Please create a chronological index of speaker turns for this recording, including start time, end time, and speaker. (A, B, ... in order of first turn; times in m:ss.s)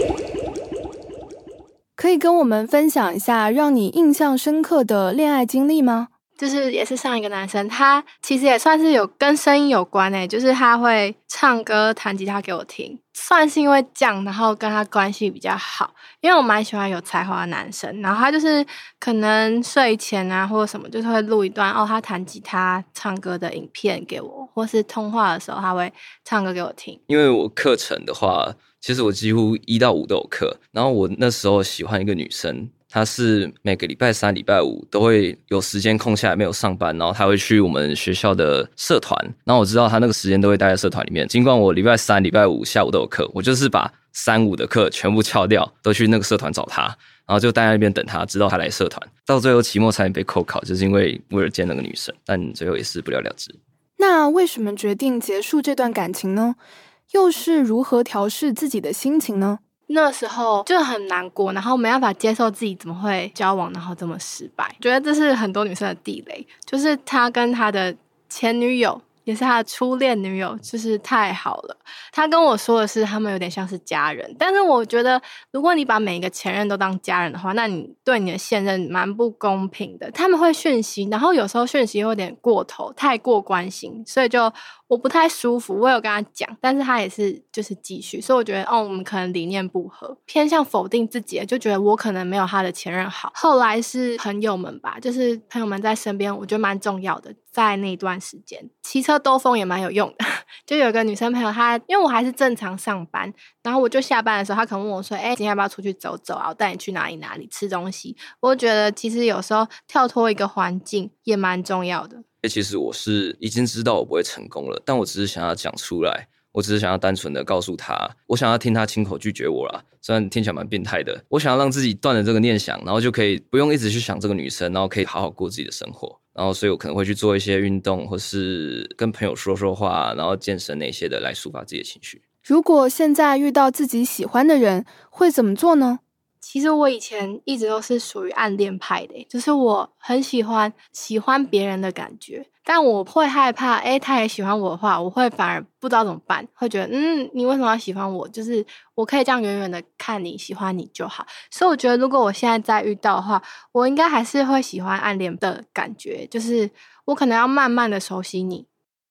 0:02.0-0:06.1 A
0:06.4-0:27.0 B
0:27.1-0:53.6 C
0:54.0-0:56.6 A
0:57.1-0:59.6 A
0:59.9-1:52.2 B
1:52.4-2:12.2 C
2:12.4-2:16.0 A
2:16.4-2:38.7 B